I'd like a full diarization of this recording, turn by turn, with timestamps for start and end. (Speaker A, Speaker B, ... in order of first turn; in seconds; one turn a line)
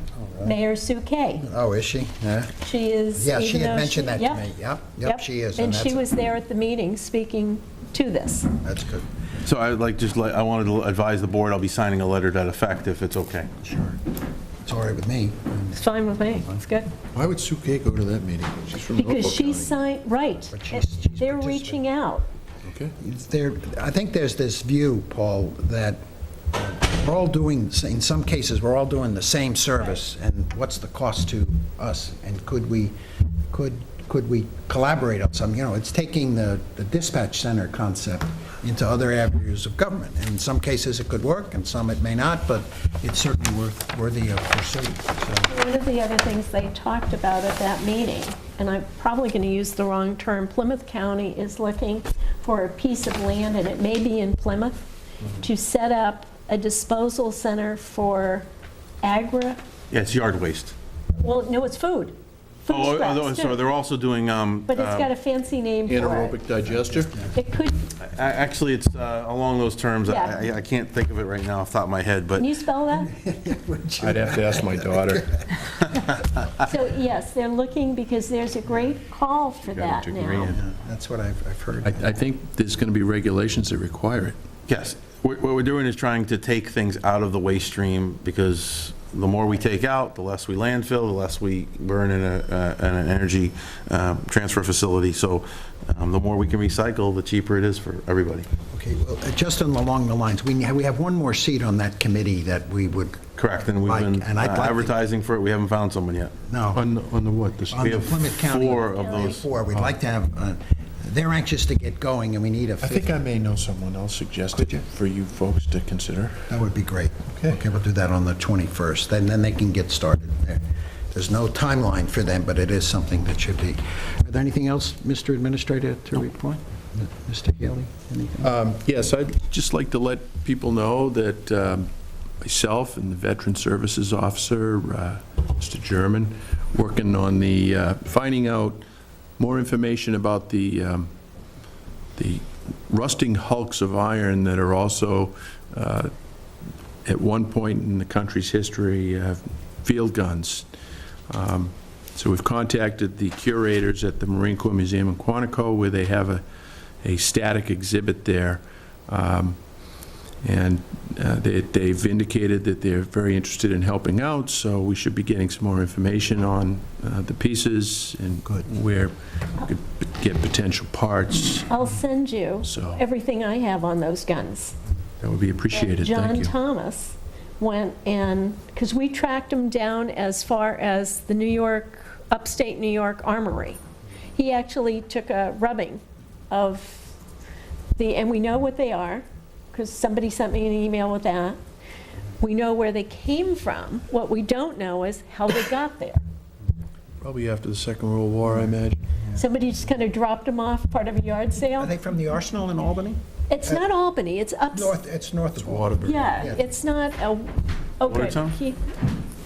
Speaker A: 0.2-0.5
Speaker B: 0.4-1.4
Speaker A: 1.4-2.5
Speaker B: 2.6-4.4
Speaker A: 3.2-6.0
Speaker B: 5.0-8.5
Speaker A: 8.6-9.0
Speaker C: 9.4-13.5
Speaker A: 13.6-14.0
Speaker A: 14.6-16.6
Speaker B: 15.7-16.9
Speaker D: 17.1-19.8
Speaker B: 18.9-22.3
Speaker A: 20.5-21.8
Speaker D: 22.6-22.9
Speaker A: 23.0-26.0
Speaker A: 26.5-32.9
Speaker A: 33.5-45.5
Speaker B: 45.5-58.5
Speaker B: 59.0-59.6
Speaker C: 59.9-60.7
Speaker B: 61.2-63.6
Speaker C: 62.7-65.1
Speaker B: 64.7-66.4
Speaker D: 65.9-67.1
Speaker A: 66.9-67.3
Speaker B: 67.3-67.8
Speaker C: 68.0-72.5
Speaker B: 70.0-70.4
Speaker B: 72.4-73.1
Speaker A: 72.9-75.4
Speaker D: 74.0-75.5
Speaker B: 76.6-80.6
Speaker D: 79.6-80.6
Speaker A: 80.4-82.0
Speaker D: 81.8-84.4
Speaker C: 84.7-98.5
Speaker A: 98.7-104.9
Speaker C: 103.3-106.4
Speaker A: 106.4-106.8
Speaker D: 106.7-108.0
Speaker A: 107.7-113.1
Speaker C: 107.8-109.5
Speaker B: 108.9-109.4
Speaker D: 112.8-116.5
Speaker A: 116.5-128.5
Speaker D: 117.3-117.6
Speaker D: 128.4-138.8
Speaker D: 139.4-141.1
Speaker D: 142.2-146.1
Speaker D: 147.0-150.7
Speaker D: 151.3-156.4
Speaker D: 157.0-159.6
Speaker D: 160.4-171.7
Speaker B: 171.7-174.8
Speaker D: 172.6-173.0
Speaker D: 175.2-176.5
Speaker B: 175.7-183.8
Speaker B: 184.3-187.1
Speaker B: 187.9-191.6
Speaker B: 192.4-196.2
Speaker D: 197.2-199.0
Speaker B: 199.3-201.9
Speaker A: 201.8-203.8
Speaker B: 203.5-204.9
Speaker A: 204.7-206.6
Speaker D: 205.6-206.4
Speaker B: 206.1-208.8
Speaker C: 208.1-208.5